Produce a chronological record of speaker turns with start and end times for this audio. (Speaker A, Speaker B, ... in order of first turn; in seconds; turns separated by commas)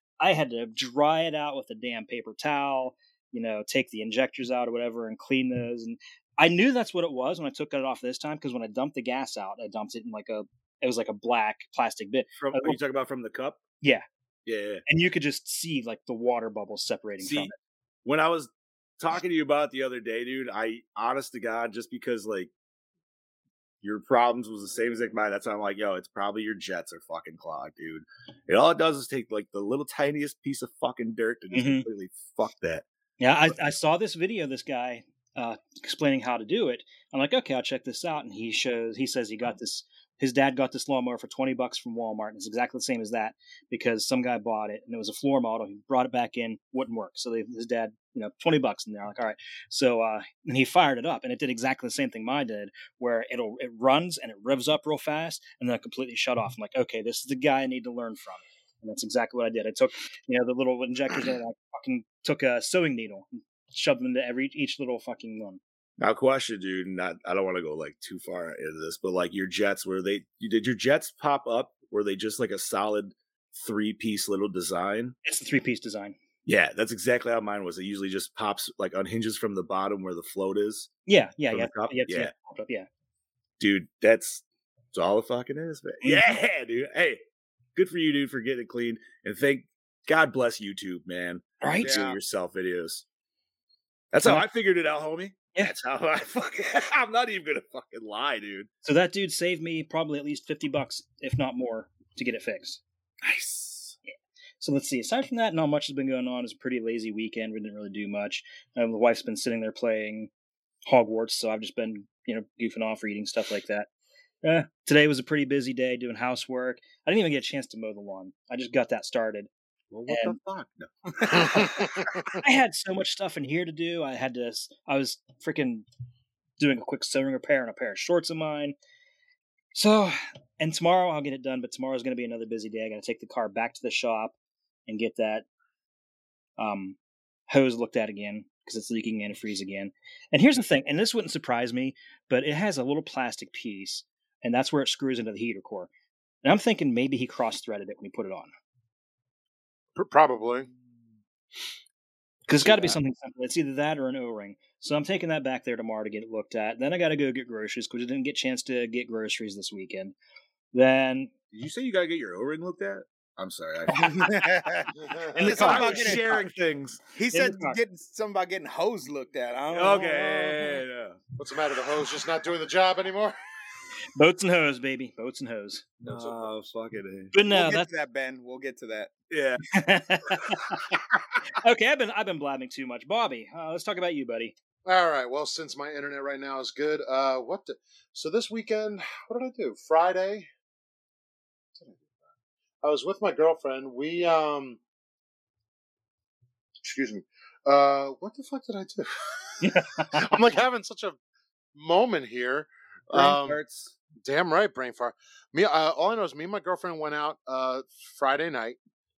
Speaker A: 0.2-12.8, Speaker B: 12.4-13.6, Speaker B: 14.5-14.8, Speaker A: 14.9-17.5, Speaker B: 17.2-17.5, Speaker B: 18.1-22.5, Speaker B: 23.8-32.9, Speaker A: 31.5-31.9, Speaker A: 33.2-65.6, Speaker B: 66.0-75.2, Speaker A: 75.2-76.2, Speaker B: 76.5-80.9, Speaker A: 81.1-82.9, Speaker B: 81.5-82.3, Speaker B: 83.6-87.2, Speaker A: 86.0-86.3, Speaker B: 87.8-93.0, Speaker A: 91.6-91.9, Speaker C: 91.8-92.2, Speaker B: 94.1-98.7, Speaker A: 98.8-102.8, Speaker B: 103.2-104.0, Speaker A: 104.6-110.3, Speaker A: 110.9-113.9, Speaker A: 114.4-119.5, Speaker B: 119.9-122.3, Speaker A: 120.1-120.4, Speaker D: 121.4-121.9, Speaker A: 122.3-125.8, Speaker A: 126.6-128.8, Speaker A: 129.7-134.3, Speaker A: 134.9-135.5, Speaker A: 136.6-137.0, Speaker A: 137.5-145.9, Speaker A: 146.4-148.5, Speaker D: 149.9-150.7, Speaker A: 152.5-160.2, Speaker A: 160.7-161.3, Speaker B: 161.5-167.1, Speaker C: 164.0-166.5, Speaker D: 165.0-165.5, Speaker A: 165.4-166.1, Speaker C: 167.1-170.8, Speaker A: 167.3-167.8, Speaker B: 169.7-171.2, Speaker D: 171.4-173.4, Speaker A: 174.2-175.9, Speaker B: 176.0-177.3, Speaker D: 176.1-176.5, Speaker A: 177.3-177.9, Speaker C: 177.5-179.1, Speaker B: 179.3-179.6, Speaker A: 179.7-181.0, Speaker A: 181.6-184.6, Speaker D: 184.8-190.5, Speaker D: 191.8-192.1, Speaker D: 192.8-194.8, Speaker D: 196.8-201.2, Speaker A: 199.6-200.2, Speaker D: 201.8-203.6, Speaker B: 203.1-203.9, Speaker D: 204.2-208.8